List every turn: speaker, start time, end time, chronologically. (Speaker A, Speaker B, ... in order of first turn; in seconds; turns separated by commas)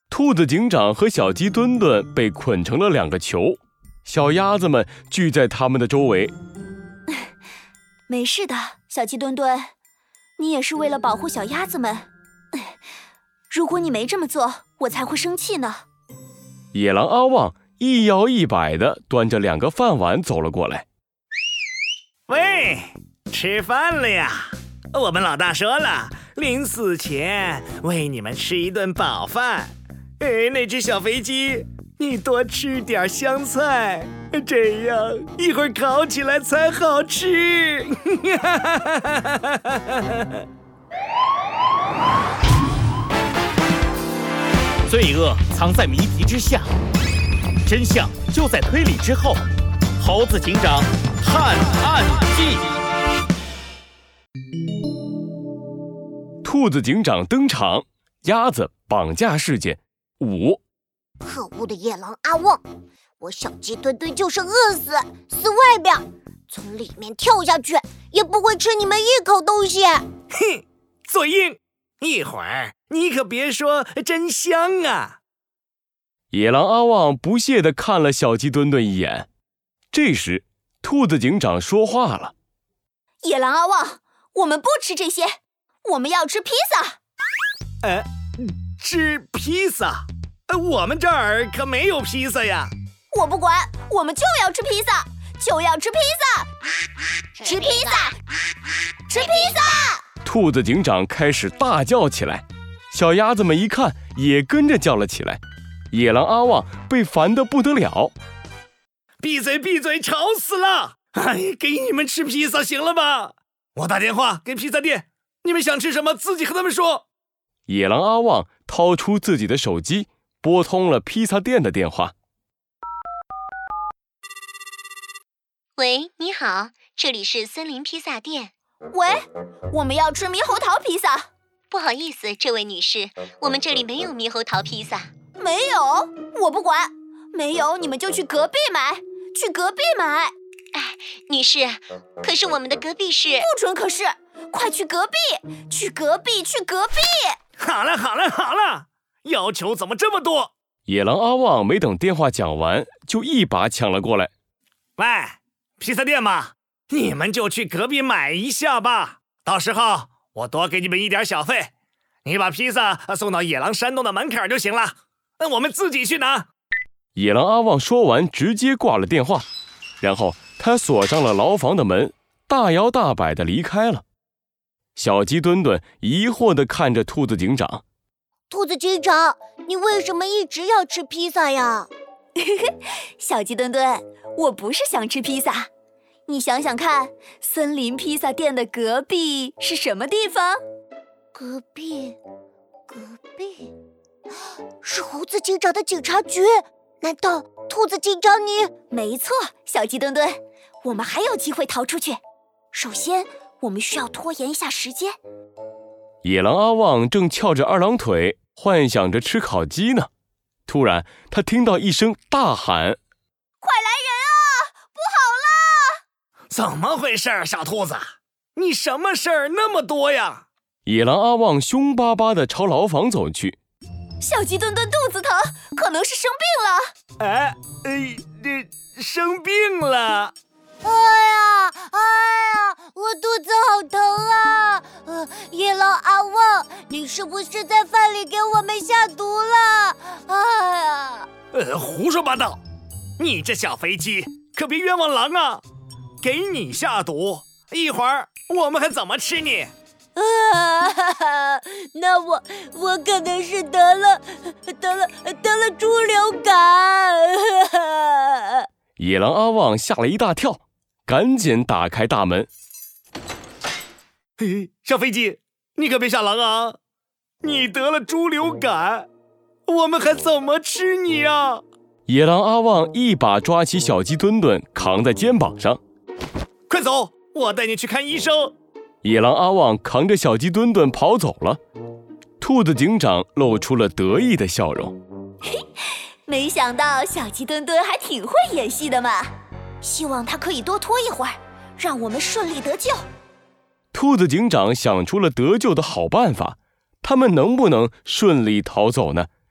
Speaker A: 0.1-6.3, Speaker B: 8.1-9.7, Speaker B: 10.4-12.1, Speaker B: 13.5-15.8, Speaker A: 16.7-20.8, Speaker C: 22.3-40.3, Speaker D: 44.9-46.7, Speaker D: 47.6-49.4, Speaker D: 50.0-52.6, Speaker A: 56.4-60.6, Speaker E: 61.2-62.6, Speaker E: 63.2-70.0, Speaker C: 70.3-75.2, Speaker A: 76.3-79.3, Speaker A: 79.9-82.3, Speaker B: 83.2-87.0, Speaker C: 87.8-92.7, Speaker B: 93.1-96.5, Speaker B: 97.4-98.2, Speaker B: 99.1-100.0, Speaker A: 100.2-105.4, Speaker A: 105.9-108.1, Speaker C: 109.2-117.0, Speaker A: 117.7-122.1, Speaker F: 125.8-128.5, Speaker B: 128.9-131.3, Speaker F: 131.7-135.1, Speaker B: 135.3-140.3, Speaker F: 140.7-143.5, Speaker B: 143.4-147.3, Speaker C: 147.6-150.5, Speaker A: 150.8-154.3, Speaker C: 155.0-161.7, Speaker C: 162.2-166.5, Speaker A: 167.2-169.4, Speaker A: 170.0-174.0, Speaker A: 174.9-177.8, Speaker E: 178.5-181.9, Speaker B: 182.4-185.7, Speaker B: 186.3-190.6, Speaker E: 191.3-192.2, Speaker E: 192.9-193.7, Speaker E: 194.8-198.7, Speaker B: 198.9-202.2, Speaker B: 202.7-205.2, Speaker A: 206.2-210.1, Speaker A: 210.7-213.0, Speaker B: 213.6-216.0, Speaker C: 216.5-220.4, Speaker A: 220.8-223.6, Speaker B: 224.2-226.9, Speaker C: 227.2-230.3, Speaker E: 230.8-241.3, Speaker C: 241.5-242.6, Speaker C: 243.2-245.6, Speaker C: 246.2-249.7, Speaker E: 250.2-258.4, Speaker A: 259.0-262.5, Speaker C: 264.4-266.8, Speaker C: 267.4-269.1, Speaker C: 269.7-271.6, Speaker A: 272.1-275.8, Speaker C: 276.7-278.5, Speaker A: 279.0-281.6, Speaker A: 282.4-284.9, Speaker B: 286.2-293.0, Speaker A: 293.9-299.3